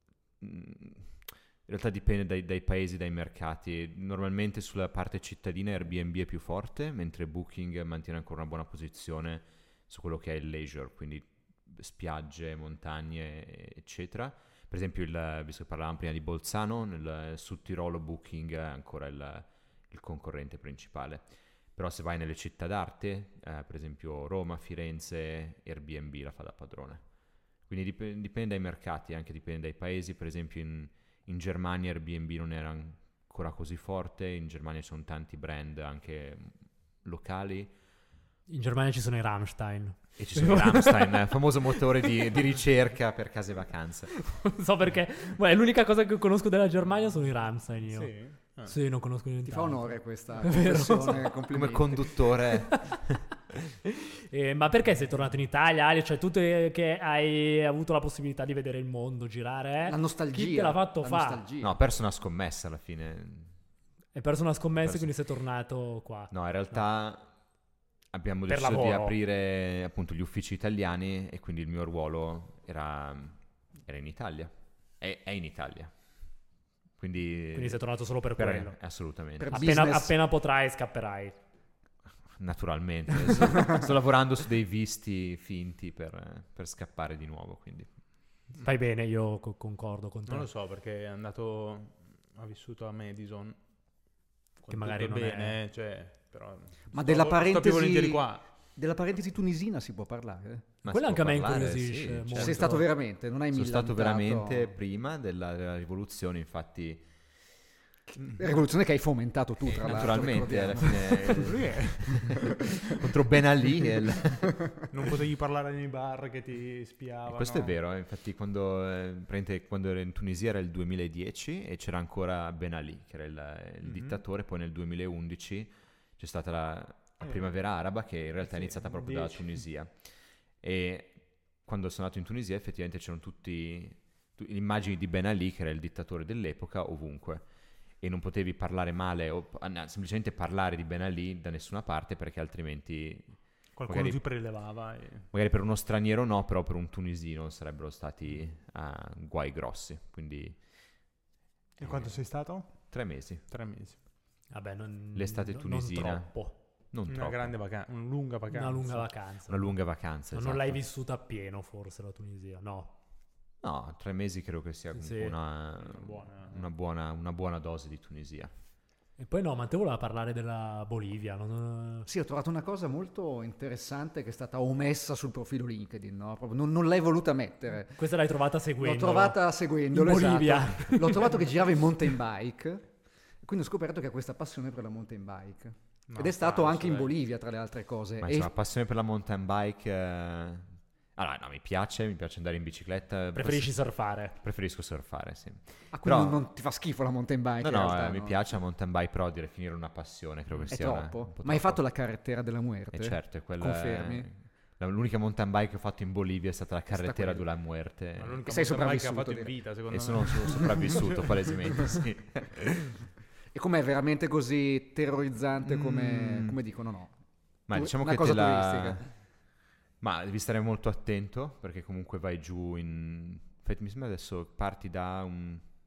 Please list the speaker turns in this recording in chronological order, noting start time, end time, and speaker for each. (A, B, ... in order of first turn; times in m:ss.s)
0:00.4-0:21.2 A
0:21.8-0:27.0 A
0:27.7-0:37.7 A
0:38.5-0:41.2 B
0:40.2-0:44.1 A
0:44.2-0:48.1 B
0:47.9-0:48.8 C
0:48.6-0:51.3 B
0:49.5-0:52.1 D
0:51.5-0:53.4 A
0:52.6-0:53.0 B
0:53.9-1:01.4 B
0:59.8-1:01.7 D
1:01.6-1:03.5 A
1:04.1-1:06.8 B
1:04.8-1:05.1 A
1:06.3-1:07.3 A
1:08.1-1:15.9 A
1:08.5-1:09.2 B
1:17.0-1:17.8 A
1:17.5-1:18.8 B
1:18.4-1:19.8 A
1:19.4-1:20.2 D
1:19.5-1:21.4 B
1:22.4-1:27.9 A
1:28.6-1:30.5 B
1:30.3-1:33.6 C
1:34.6-1:38.4 C
1:34.7-1:35.6 B
1:36.9-1:40.7 D
1:40.8-1:42.8 A
1:40.9-1:42.8 B
1:42.4-1:44.7 D
1:43.5-1:47.1 A
1:48.1-1:51.5 D
1:49.7-1:54.6 A
1:51.3-1:52.5 C
1:54.9-1:57.8 C
1:57.3-2:10.0 A
2:03.8-2:04.2 C
2:07.2-2:07.5 C
2:08.4-2:09.6 C
2:10.6-2:17.5 A
2:18.0-2:23.3 A
2:23.8-2:25.3 C
2:23.9-2:24.2 A
2:25.3-2:30.6 A
2:31.8-2:32.2 A
2:31.8-2:32.9 C
2:32.9-2:33.4 A
2:33.5-2:34.0 C
2:34.5-2:36.6 B
2:35.2-2:36.3 A
2:36.9-2:37.6 A
2:37.1-2:39.1 C
2:38.5-2:39.8 B
2:39.5-2:40.8 A
2:40.3-2:42.9 B
2:43.6-2:48.5 A
2:45.0-2:45.4 B
2:45.8-2:46.7 C
2:49.2-2:52.1 B
2:52.1-2:58.0 D
2:58.0-3:01.4 B
2:58.8-3:02.9 D
3:03.4-3:08.5 D
3:06.1-3:07.1 C
3:08.2-3:13.8 A
3:13.3-3:14.4 B
3:14.4-3:16.4 A
3:15.9-3:18.4 D
3:17.6-3:21.8 A
3:20.5-3:20.8 C
3:20.7-3:24.3 D
3:22.9-3:28.4 A
3:26.9-3:27.4 D
3:28.2-3:31.4 C
3:28.5-3:29.5 D
3:29.9-3:33.0 A
3:33.5-3:37.1 D
3:35.6-3:36.6 A
3:37.7-3:39.1 A
3:37.7-3:39.0 D
3:40.0-3:45.6 A